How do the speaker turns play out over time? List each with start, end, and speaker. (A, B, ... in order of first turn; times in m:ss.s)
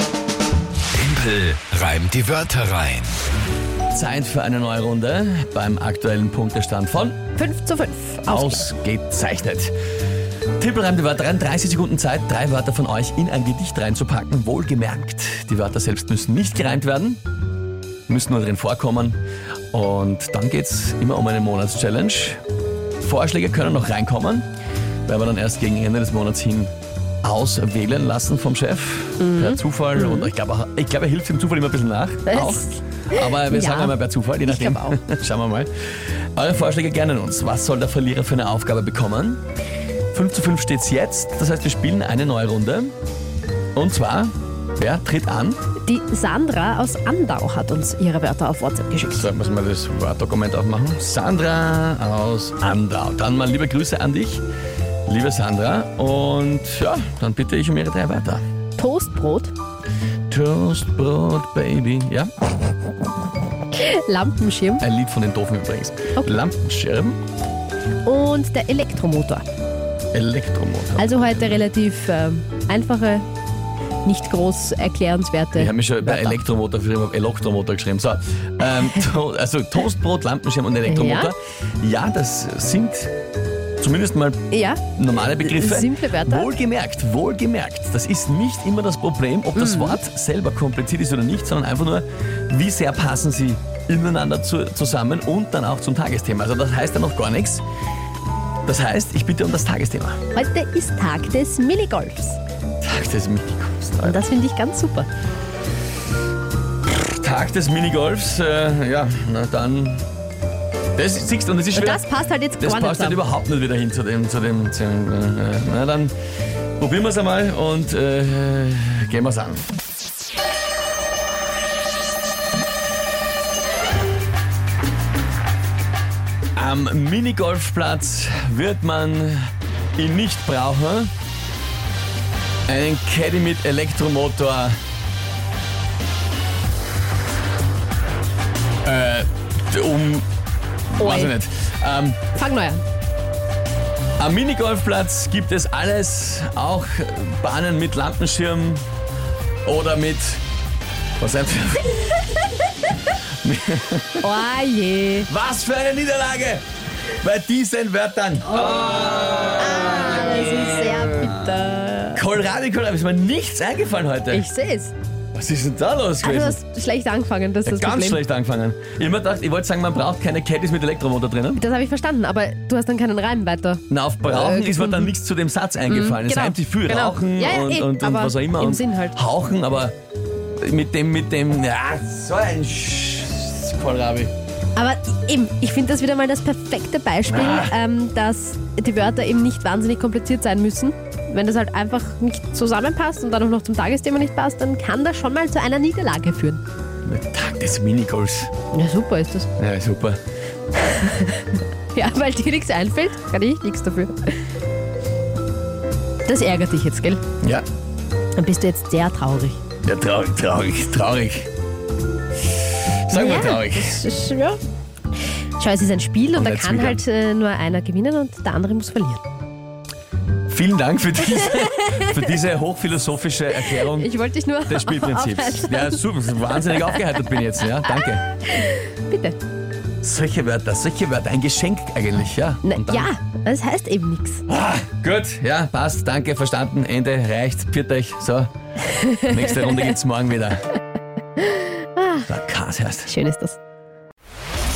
0:00.9-0:03.1 A
0:03.9-0:07.2 B
0:07.4-0:08.6 C
0:08.2-0:09.7 B
0:10.6-0:17.2 B
0:18.1-0:19.2 B
0:19.7-0:22.4 B
0:23.0-0:24.4 B
0:25.0-0:26.7 B
0:27.2-0:39.4 B
0:29.2-0:30.3 C
0:32.3-0:35.0 C
0:40.1-0:42.9 B
0:43.7-0:45.6 B
0:45.8-0:49.3 C
0:49.0-0:54.4 B
0:55.1-0:58.4 B
0:58.8-0:59.5 C
1:00.3-1:02.3 B
1:03.7-1:04.8 C
1:04.8-1:07.2 B
1:08.0-1:09.4 C
1:10.1-1:11.6 B
1:11.0-1:13.3 C
1:14.0-1:16.4 C
1:15.5-1:23.1 B
1:20.8-1:21.3 C
1:23.8-1:24.4 B
1:24.5-1:24.8 C
1:25.0-1:37.6 B
1:25.4-1:26.5 C
1:29.5-1:30.0 C
1:38.6-1:40.2 B
1:40.3-1:42.4 C
1:42.8-1:44.2 B
1:44.0-1:45.1 C
1:46.9-1:50.0 B
1:51.0-1:52.0 B
1:51.7-1:53.2 C
1:52.6-1:56.1 B
1:56.8-1:59.7 B
2:06.6-2:11.1 B
2:12.7-2:14.8 B
2:18.8-2:20.3 B
2:20.9-2:22.2 B
2:21.0-2:21.3 C
2:22.3-2:22.8 C
2:24.2-2:28.8 B
2:29.6-2:30.4 B
2:31.2-2:32.0 B
2:33.1-2:34.4 B
2:34.2-2:35.3 C
2:35.3-2:36.6 B
2:37.2-2:38.7 B
2:38.6-2:38.8 C
2:39.5-2:42.2 C
2:42.1-2:44.4 B
2:44.3-2:44.9 C
2:45.3-2:46.6 B
2:46.2-2:48.2 C
2:47.6-2:51.6 B
2:51.6-2:55.1 C
2:53.9-2:59.9 B
2:55.9-2:59.2 C
3:00.6-3:04.3 B
3:04.8-3:16.6 C
3:07.3-3:07.7 B
3:17.0-3:18.5 B
3:18.7-3:19.5 C
3:19.6-3:20.2 B
3:20.8-3:24.4 C
3:26.2-3:27.2 C
3:28.3-3:29.6 C
3:29.8-3:31.5 B
3:33.0-3:34.1 B
3:33.1-3:34.6 C
3:35.6-3:39.2 C
3:36.3-3:37.0 B
3:40.5-3:44.1 B
3:41.2-3:42.3 C
3:43.6-3:49.4 C
3:44.6-3:48.3 B
3:50.0-3:53.1 B
3:52.6-3:54.4 C
3:54.5-3:58.5 B
3:59.0-3:59.8 C
3:59.2-4:00.6 B
4:01.4-4:02.3 C
4:02.3-4:03.1 B
4:03.0-4:03.6 C